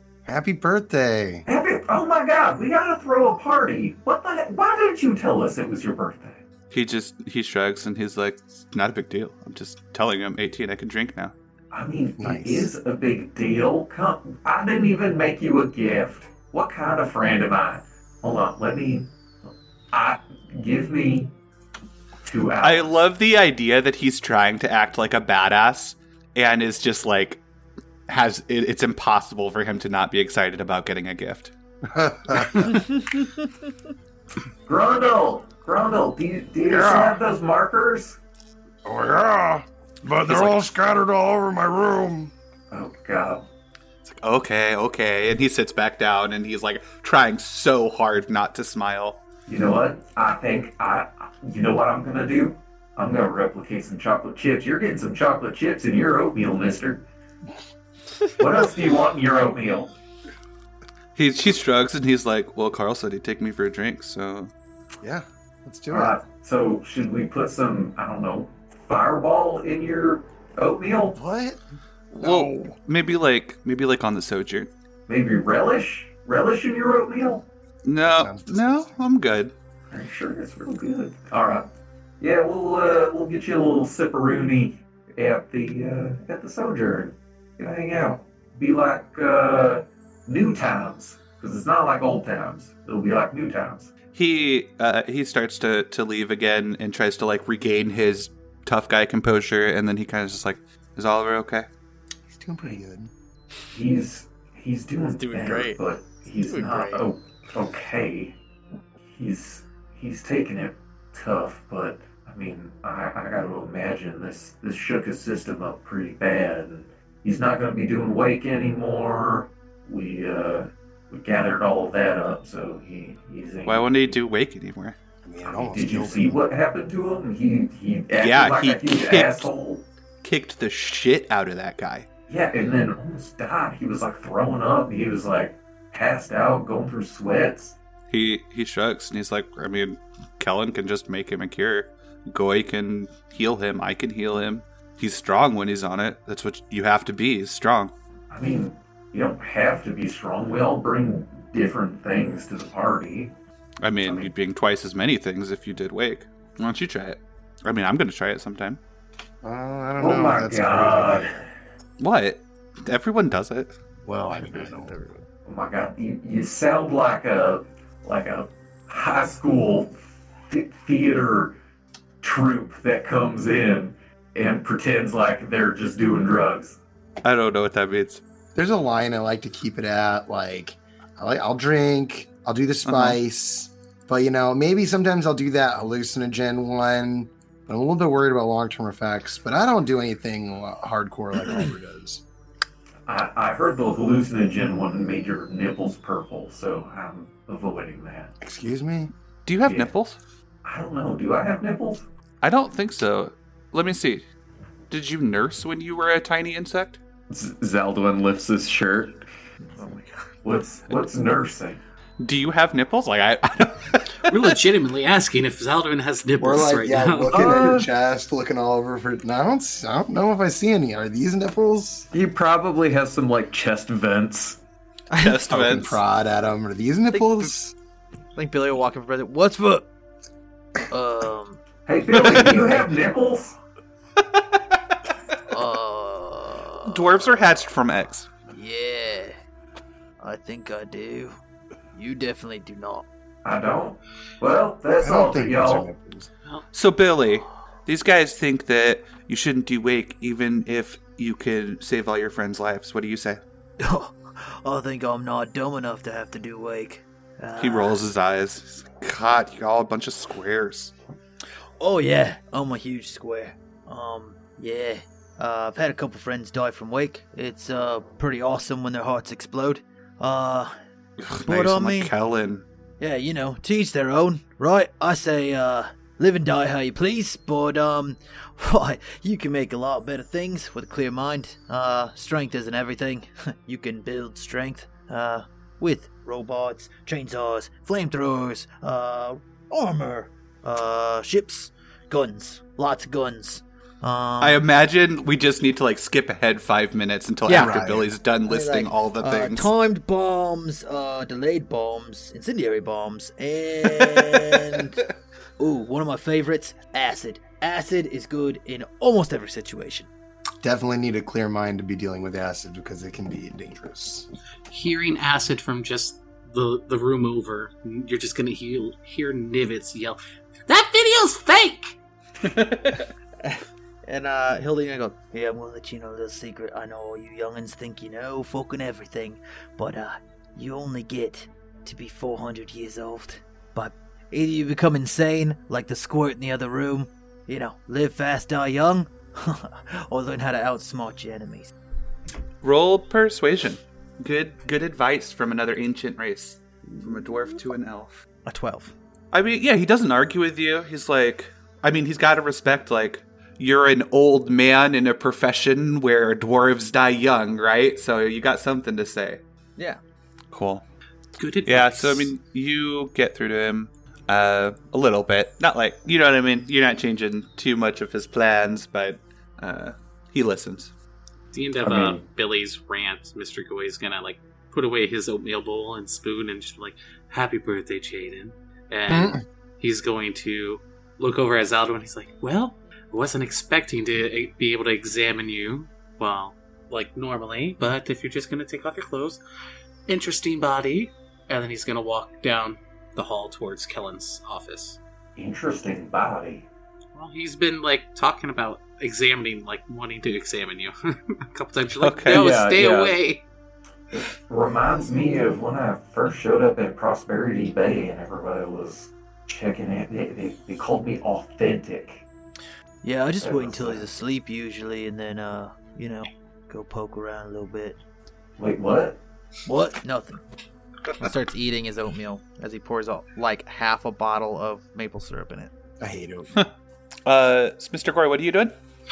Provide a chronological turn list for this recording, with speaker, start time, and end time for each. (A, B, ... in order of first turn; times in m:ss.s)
0:00.2-0:01.4 A
0:01.4-0:06.4 B
0:06.7-0:11.3 C
0:11.7-0:21.3 B
0:12.2-0:12.7 A
0:22.2-0:22.9 B
0:22.6-0:27.4 C
0:28.1-0:31.5 C
0:31.9-0:32.8 A
0:34.6-0:38.2 B
0:36.6-0:37.2 D
0:38.8-0:42.3 D
0:40.2-0:40.7 C
0:42.7-0:43.4 B
0:44.0-0:49.2 C
0:49.5-0:57.0 B
0:58.4-0:59.9 B
1:01.1-1:04.5 C
1:05.0-1:06.2 A
1:05.9-1:11.2 B
1:11.1-1:11.6 A
1:12.1-1:14.7 C
1:12.2-1:12.5 D
1:15.1-1:17.5 B
1:17.8-1:19.5 C
1:18.0-1:19.0 A
1:19.9-1:21.7 B
1:22.2-1:33.9 B
1:34.1-1:41.7 C
1:42.3-1:43.1 A
1:43.7-1:48.4 B
1:45.2-1:45.8 E
1:46.5-1:47.0 E
1:49.0-2:04.2 B
2:03.6-2:05.0 C
2:05.2-2:06.4 A
2:05.4-2:09.8 B
2:08.2-2:09.5 C
2:10.2-2:12.1 C
2:12.3-2:17.8 B
2:18.1-2:27.9 C
2:28.3-2:33.3 B
2:33.8-2:38.8 C
2:34.0-2:34.3 B
2:39.4-2:41.4 A
2:40.0-2:41.4 B
2:42.0-2:43.7 C
2:44.0-2:45.0 A
2:45.4-2:51.6 B
2:52.2-2:56.8 B
2:57.2-2:58.2 C
2:58.5-3:12.2 A
3:02.8-3:03.2 C
3:13.1-3:18.3 B
3:18.4-3:19.1 A
3:19.4-3:20.2 C
3:19.6-3:19.9 B
3:20.6-3:22.0 B
3:22.4-3:24.2 C
3:24.9-3:27.0 C
3:27.3-3:29.2 F
3:30.4-3:31.8 B
3:32.2-3:34.5 C
3:34.2-3:37.6 G
3:36.4-3:42.1 A
3:42.1-3:44.6 F
3:45.1-3:45.4 E
3:45.2-3:46.0 C
3:45.5-3:47.7 A
3:47.1-3:47.5 E
3:48.4-3:49.9 E
3:50.9-3:51.6 E
3:51.8-3:53.6 B
3:55.5-3:57.5 E
3:56.8-3:58.3 C
3:58.5-3:59.4 E
4:00.2-4:01.4 E
4:01.9-4:03.0 E
4:03.4-4:05.9 B
4:05.0-4:06.3 A
4:06.7-4:13.4 C
4:13.8-4:18.0 E
4:17.6-4:20.9 C
4:21.8-4:30.7 E
4:31.2-4:32.6 C
4:31.4-4:32.1 E
4:33.0-4:54.6 E
4:54.4-4:59.7 C
4:57.5-4:57.9 E
4:57.5-4:58.1 A
4:58.4-5:05.0 E
5:04.2-5:04.7 C
5:05.6-5:10.1 E
5:10.6-5:14.3 A
5:14.7-5:22.0 G
5:22.4-5:23.0 C
5:24.0-5:41.7 E
5:42.6-5:48.2 C
5:48.4-5:48.9 E
5:49.3-5:59.4 C
6:00.5-6:00.8 C
6:01.4-6:02.3 G
6:01.6-6:10.9 C
6:11.5-6:29.4 G
6:11.8-6:12.2 F
6:19.1-6:19.4 A
6:30.1-6:35.0 G
6:35.4-6:36.7 B
6:37.1-6:43.4 G
6:41.9-6:42.4 C
6:42.3-6:43.2 F
6:44.1-6:52.2 B
6:53.0-6:58.0 E
6:53.4-6:54.1 B
6:58.6-6:59.2 B
6:59.6-7:00.4 E
7:01.2-7:05.7 E
7:06.0-7:06.5 A
7:07.2-7:08.7 C